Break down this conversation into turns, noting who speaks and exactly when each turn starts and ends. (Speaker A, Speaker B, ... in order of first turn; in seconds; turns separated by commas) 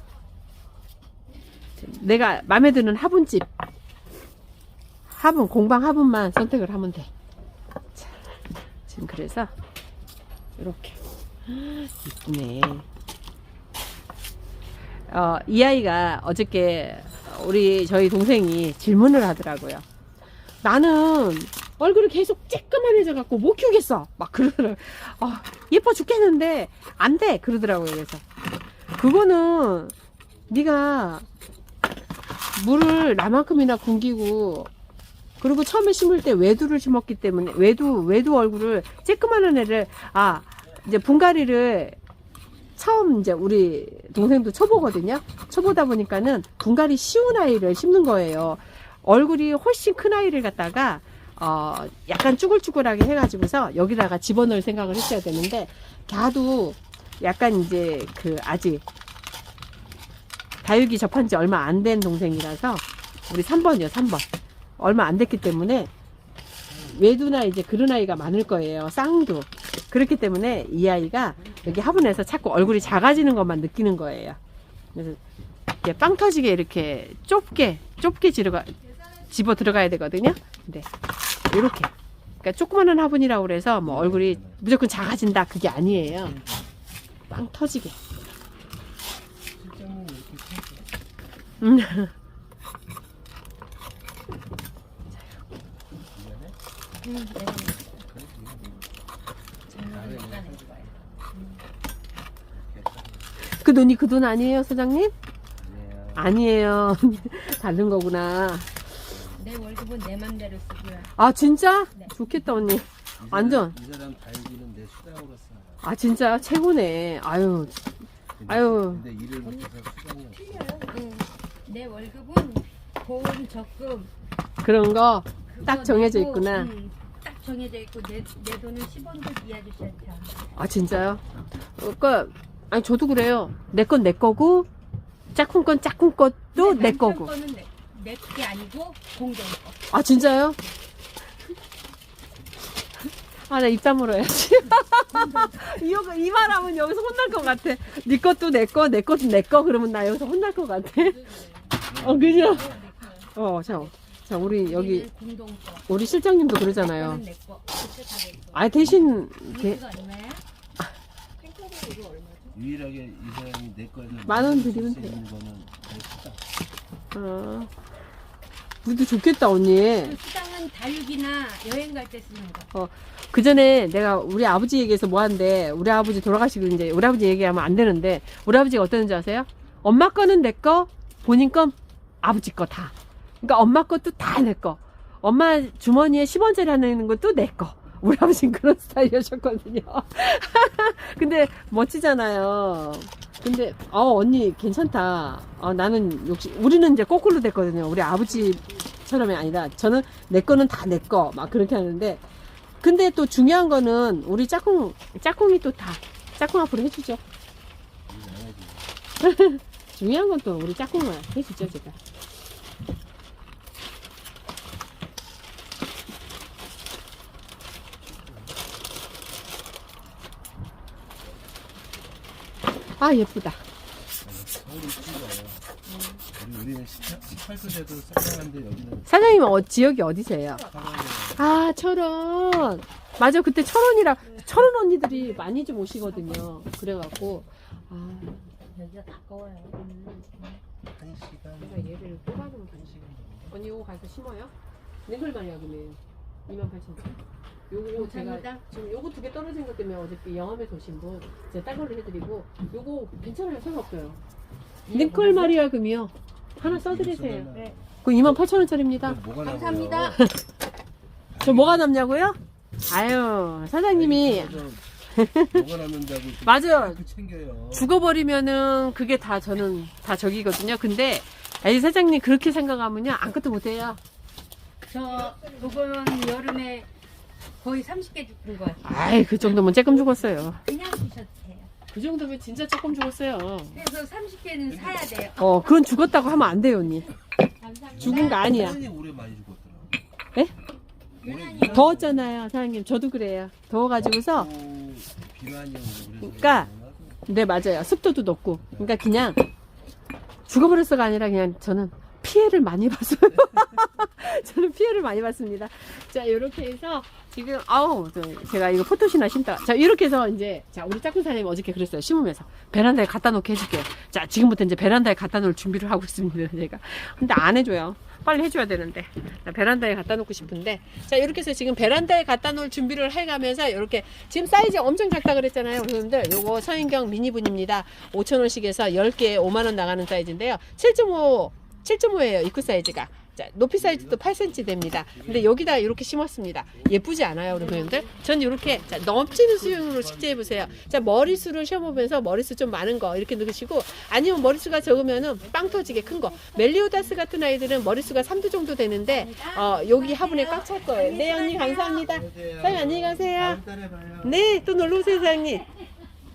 Speaker A: 1.8-3.5, Speaker A: 5.1-7.1, Speaker A: 8.9-9.5, Speaker A: 10.6-12.9, Speaker A: 15.1-19.9, Speaker A: 20.6-28.2, Speaker A: 29.0-29.9, Speaker A: 30.5-31.2, Speaker A: 32.6-34.7, Speaker A: 35.4-42.0, Speaker A: 42.8-58.8, Speaker A: 60.6-64.3, Speaker A: 64.8-65.9, Speaker A: 66.8-74.4, Speaker A: 74.9-75.2, Speaker A: 75.8-80.9, Speaker A: 81.5-86.4, Speaker B: 83.8-84.6, Speaker B: 85.8-86.7, Speaker A: 87.3-88.0, Speaker B: 89.5-90.9, Speaker A: 91.6-92.1, Speaker B: 96.1-96.6, Speaker C: 97.0-98.0, Speaker B: 98.0-98.9, Speaker C: 99.7-101.6, Speaker B: 99.7-101.0, Speaker B: 102.5-103.3, Speaker A: 103.4-105.1, Speaker B: 105.6-106.3, Speaker A: 106.2-108.9, Speaker B: 109.1-109.5, Speaker C: 109.4-111.1, Speaker A: 111.2-113.8, Speaker B: 113.2-115.8, Speaker A: 115.8-117.8, Speaker B: 118.4-120.8, Speaker A: 118.5-119.0, Speaker C: 120.3-124.1, Speaker A: 124.6-126.7, Speaker C: 125.5-130.4, Speaker A: 130.6-131.2, Speaker A: 131.8-134.7, Speaker A: 135.3-137.3, Speaker C: 136.6-139.8, Speaker A: 139.9-140.6, Speaker A: 143.5-151.3, Speaker C: 145.1-145.6, Speaker C: 151.0-151.7, Speaker B: 151.8-152.9, Speaker A: 152.0-152.7, Speaker C: 152.4-155.9, Speaker A: 153.3-155.1, Speaker A: 155.9-157.2, Speaker C: 156.6-160.4, Speaker A: 158.5-159.8, Speaker C: 161.4-162.5, Speaker B: 162.5-166.4, Speaker A: 164.3-165.2, Speaker A: 167.1-167.7, Speaker A: 168.8-170.2, Speaker C: 170.0-172.7, Speaker A: 172.7-202.2, Speaker A: 202.8-207.2, Speaker B: 208.1-208.9, Speaker A: 209.2-212.0, Speaker B: 218.1-218.5, Speaker A: 223.0-223.6, Speaker B: 224.2-225.6, Speaker C: 225.9-226.2, Speaker B: 226.3-229.1, Speaker A: 229.1-230.7, Speaker B: 230.6-231.5, Speaker A: 231.4-238.5, Speaker C: 235.3-236.4, Speaker C: 238.7-240.6, Speaker B: 240.9-242.1, Speaker A: 241.6-243.0, Speaker B: 242.7-243.5, Speaker A: 243.5-244.5, Speaker A: 245.1-247.2, Speaker A: 247.7-254.2, Speaker C: 247.9-248.6, Speaker C: 254.9-255.6, Speaker A: 254.9-257.5, Speaker B: 256.6-257.9, Speaker A: 258.0-259.2, Speaker B: 259.0-260.2, Speaker C: 259.4-260.2, Speaker A: 260.1-260.4, Speaker B: 261.3-261.9, Speaker A: 261.4-265.6, Speaker B: 263.9-264.8, Speaker B: 265.5-267.9, Speaker A: 266.4-267.0, Speaker A: 267.7-274.0, Speaker C: 274.9-276.9, Speaker C: 277.6-279.0, Speaker A: 278.8-280.6, Speaker B: 280.1-280.5, Speaker C: 280.6-281.7, Speaker A: 281.9-283.8, Speaker C: 283.7-285.6, Speaker B: 284.7-285.3, Speaker A: 285.4-287.1, Speaker B: 286.2-286.6, Speaker C: 287.6-288.7, Speaker B: 287.9-290.0, Speaker A: 288.0-288.8, Speaker B: 291.2-292.3, Speaker C: 291.2-291.9, Speaker A: 291.6-294.5, Speaker B: 294.2-297.2, Speaker A: 296.2-296.7, Speaker A: 297.3-299.4, Speaker A: 300.5-353.6, Speaker B: 333.8-335.7, Speaker C: 337.8-338.0, Speaker B: 339.0-340.9, Speaker C: 345.9-346.6, Speaker C: 349.1-352.1, Speaker B: 352.0-354.6, Speaker A: 354.2-355.7